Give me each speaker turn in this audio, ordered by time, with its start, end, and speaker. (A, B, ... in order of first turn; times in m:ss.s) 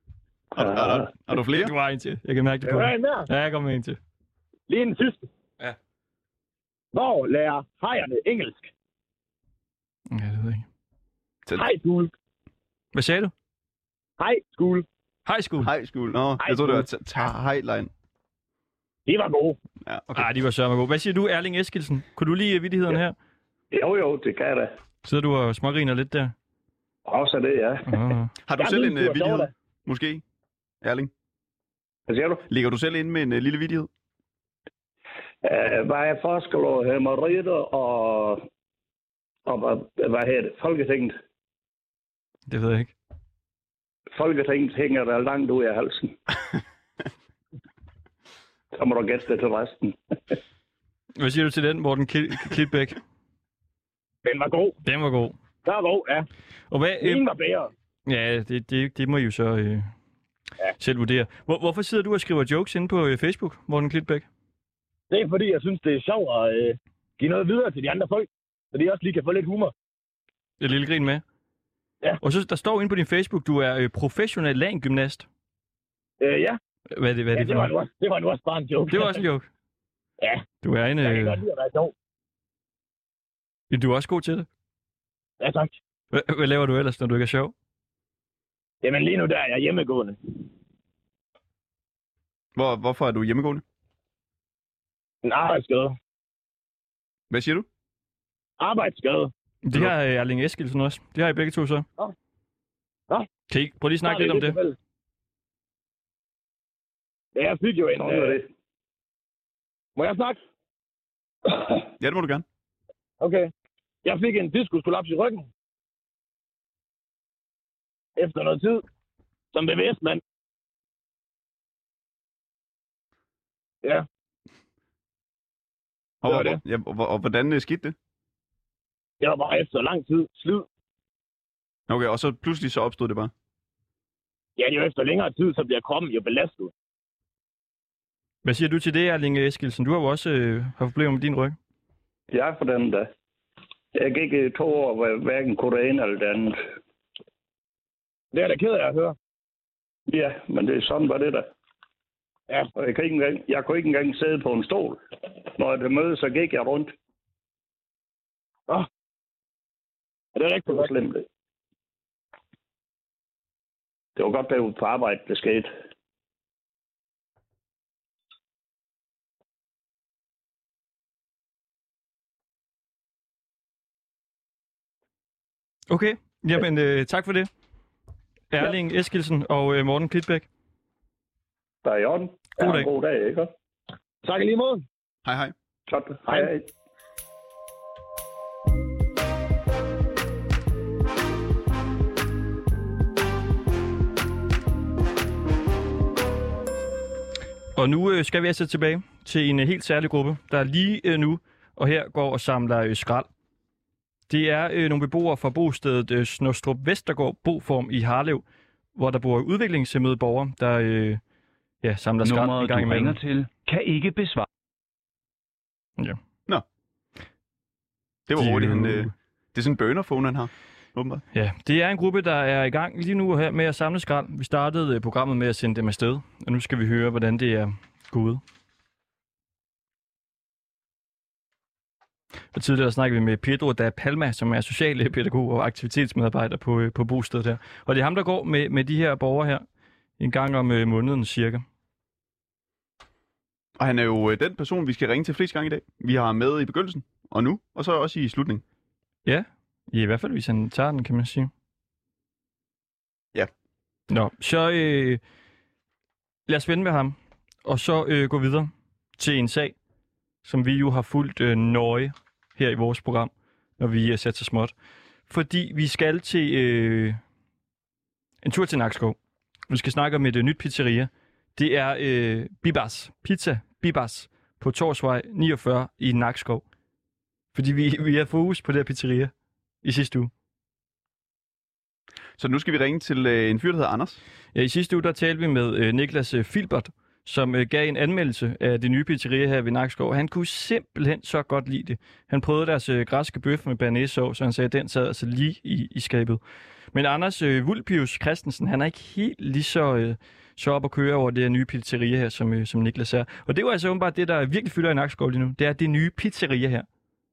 0:00.5-0:01.7 A
0:00.6-0:01.0 B
0:01.4-0:04.0 C
0:02.6-0:03.3 D
0:04.7-0:05.3 D
0:06.9-0:08.7 D
0:10.1-0:10.6 C
0:11.5-0:12.1 D
0:12.9-0:13.3 C
0:14.2-0:14.8 D
0:15.2-0:15.7 C
0:15.6-0:17.9 A
0:16.4-0:16.8 D
0:19.0-0:19.6 D
0:19.8-0:20.2 A
0:20.1-0:23.1 C
0:23.7-0:24.7 B
0:25.0-0:26.3 C
0:27.1-0:27.9 B
0:27.9-0:28.3 C
0:28.5-0:30.2 A
0:28.5-0:29.5 D
0:30.8-0:31.1 A
0:32.1-0:32.4 B
0:32.5-0:33.9 A
0:35.4-0:38.4 B
0:39.4-0:41.2 B
0:42.5-0:42.9 C
0:44.1-0:46.1 B
0:48.7-0:50.1 B
0:51.2-0:53.0 C
0:54.2-0:54.8 D
0:54.8-0:55.4 C
0:55.6-0:56.2 D
0:56.7-0:57.2 C
0:57.0-0:57.7 D
0:58.0-0:59.9 C
1:00.8-1:04.2 C
1:05.1-1:09.7 D
1:10.6-1:11.2 C
1:12.2-1:15.3 C
1:16.2-1:16.6 D
1:16.9-1:17.7 C
1:17.3-1:19.2 D
1:18.9-1:19.5 C
1:20.6-1:21.4 C
1:21.0-1:21.9 D
1:23.7-1:24.5 C
1:25.4-1:25.7 D
1:26.1-1:27.5 C
1:28.8-1:30.2 D
1:32.5-1:33.6 A
1:35.2-1:36.0 D
1:37.3-1:37.6 A
1:38.6-1:39.3 D
1:39.6-1:41.8 C
1:43.5-1:44.6 C
1:44.0-1:44.7 D
1:47.3-1:48.4 D
1:48.0-1:48.4 B
1:50.0-1:50.4 D
1:52.0-1:52.4 A
1:53.2-1:53.5 D
1:54.0-1:55.5 D
1:58.2-1:58.8 D
1:59.5-2:00.2 D
2:06.2-2:06.6 D
2:06.2-2:07.9 A
2:09.2-2:10.7 D
2:11.9-2:13.3 A
2:14.6-2:16.7 D
2:18.4-2:21.6 C
2:22.3-2:23.1 B
2:23.9-2:26.6 B
2:28.3-2:29.2 D
2:30.1-2:31.5 B
2:32.8-2:35.0 B
2:35.5-2:36.9 B
2:40.4-2:40.9 D
2:40.7-2:41.2 B
2:44.2-2:45.7 B
2:55.9-2:57.5 C
2:58.5-3:00.4 C
3:01.8-3:03.5 B
3:02.6-3:02.9 C
3:04.2-3:04.8 D
3:05.2-3:05.5 A
3:05.9-3:06.6 B
3:17.7-3:23.3 C
3:24.3-3:28.4 C
3:28.9-3:31.2 C
3:31.8-3:33.2 C
3:32.2-3:34.4 E
3:38.3-3:41.2 A
3:38.4-3:39.1 C
3:41.3-3:48.4 C
3:52.5-3:59.6 C
4:00.2-4:01.6 C
4:03.8-4:08.6 A
4:09.2-4:11.5 C
4:14.1-4:15.2 C
4:16.5-4:19.7 C
4:20.4-4:24.7 C
4:25.3-4:27.2 C
4:28.4-4:29.2 C
4:29.7-4:36.6 C
4:37.5-4:39.3 C
4:39.8-4:40.3 C
4:42.4-4:44.2 A
4:44.5-4:56.4 C
4:56.9-5:06.8 C